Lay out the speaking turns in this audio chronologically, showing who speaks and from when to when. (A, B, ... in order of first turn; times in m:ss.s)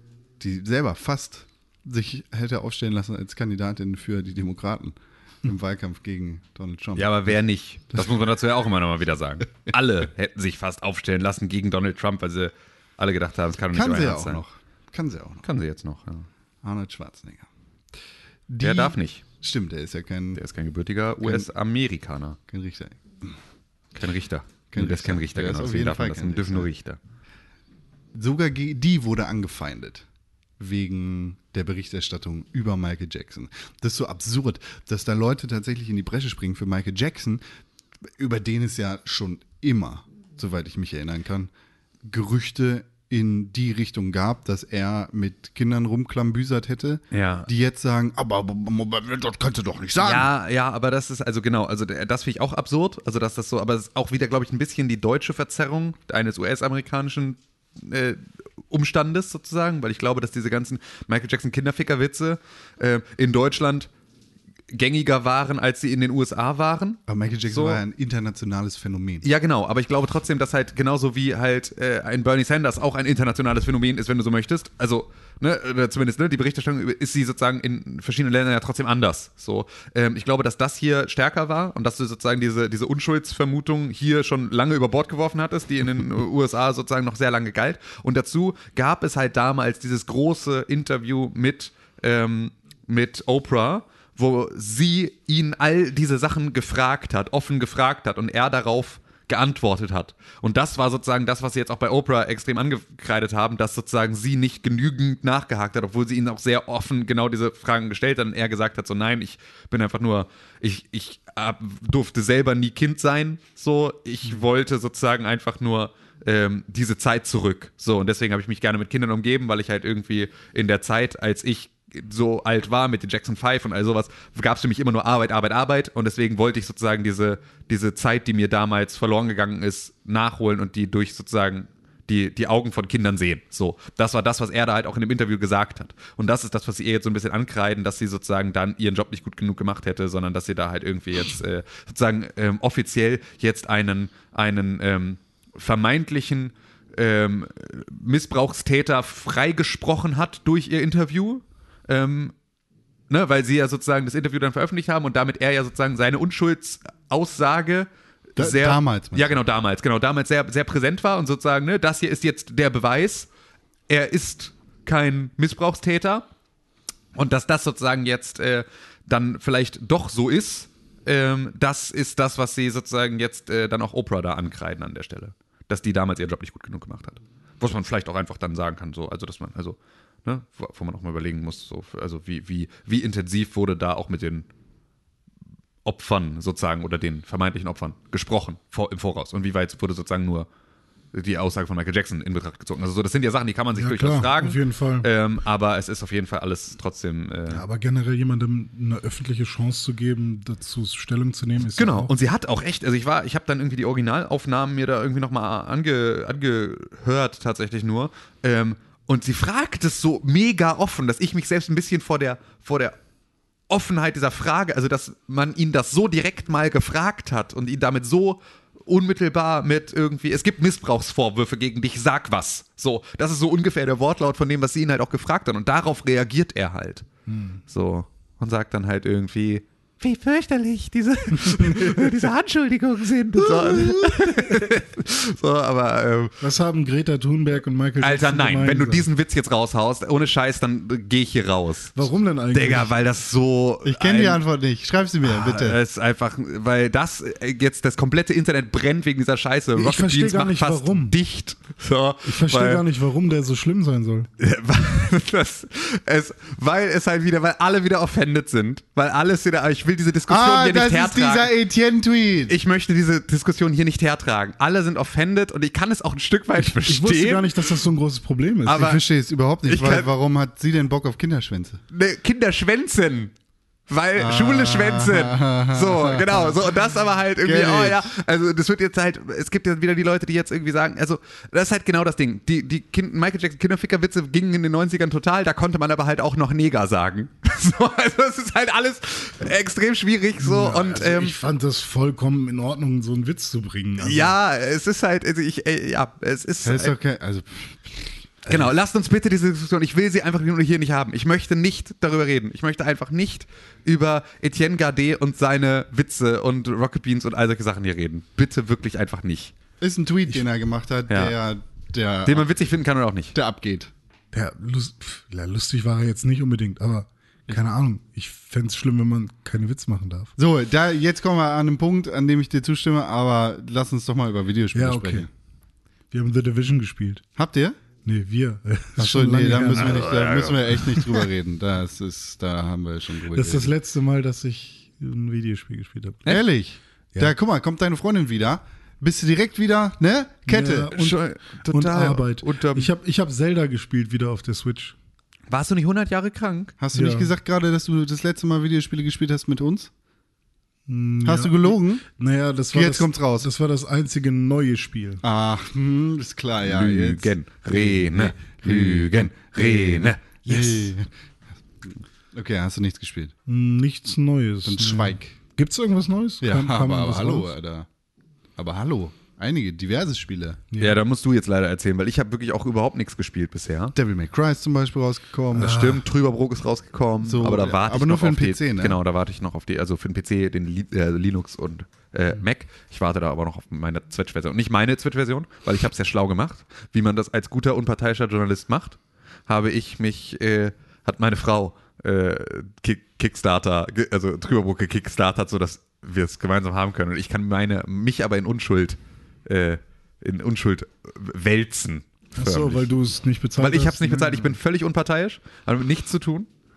0:00.4-0:07.4 A
0:07.0-0:14.4 B
0:13.7-0:15.4 A
0:15.4-0:16.3 B
0:16.6-0:17.5 A
0:18.5-0:20.4 A
0:18.6-0:19.2 B
0:20.3-0:22.4 B
0:21.2-0:21.5 A
0:22.5-0:23.3 A
0:23.9-0:27.0 B
0:24.7-0:26.7 A
0:28.1-0:30.0 A
0:30.6-0:37.4 A
0:38.2-0:41.5 A
0:42.0-0:50.3 A
0:47.1-0:47.5 B
0:50.0-1:03.9 B
1:04.7-1:07.8 B
1:07.1-1:09.2 A
1:09.2-2:32.3 B
2:33.1-2:43.3 B
2:38.4-2:39.4 A
2:43.9-2:46.3 B
2:47.1-3:04.5 B
3:05.8-3:10.5 B
3:11.1-3:17.6 B
3:13.7-3:15.1 C
3:17.5-3:22.1 C
3:21.8-3:33.0 B
3:33.7-3:47.0 B
3:47.3-3:47.6 C
3:47.7-3:56.4 B
3:51.5-3:52.1 C
3:53.7-3:54.5 C
3:56.4-3:59.1 C
3:58.0-4:04.4 B
4:01.9-4:02.9 C
4:03.8-4:05.8 A
4:05.2-4:12.8 B
4:09.8-4:11.2 C
4:12.2-4:14.3 C
4:14.4-4:21.5 B
4:20.3-4:22.5 A
4:22.5-4:27.7 B
4:26.6-4:29.0 C
4:28.6-4:29.0 B
4:28.7-4:31.8 A
4:29.6-4:30.1 B
4:31.9-4:33.3 B
4:33.9-4:51.4 B
4:34.2-4:36.8 A
4:37.4-4:38.1 A
4:50.4-4:54.4 C
4:54.0-4:56.9 B
4:56.6-4:58.6 A
4:58.4-5:09.5 B
5:09.8-5:12.5 A
5:11.1-5:11.3 B
5:12.2-5:13.3 B
5:13.3-5:13.9 A
5:14.3-5:20.3 C
5:20.4-5:25.3 A
5:24.7-5:25.3 C
5:26.1-5:27.2 C
5:27.4-5:27.8 A
5:28.0-5:31.2 C
5:29.0-5:33.7 A
5:29.9-5:30.5 B
5:33.3-5:36.4 C
5:36.2-5:40.9 A
5:40.5-5:45.0 C
5:40.9-5:42.9 B
5:45.5-5:46.7 B
5:46.8-5:49.9 A
5:46.9-5:47.3 C
5:50.9-5:55.2 C
5:51.2-5:52.0 A
5:52.7-5:53.5 A
5:55.2-6:01.1 A
5:56.6-6:00.2 B
6:00.5-6:00.9 C
6:02.3-6:03.3 A
6:03.5-6:07.5 C
6:04.6-6:05.4 A
6:06.4-6:07.9 A
6:08.6-6:10.6 A
6:10.7-6:11.0 C
6:10.8-6:13.9 B
6:13.9-6:15.9 A
6:15.5-6:42.9 B
6:15.6-6:16.0 C
6:17.2-6:19.0 A
6:42.3-6:44.6 C
6:43.6-6:46.5 B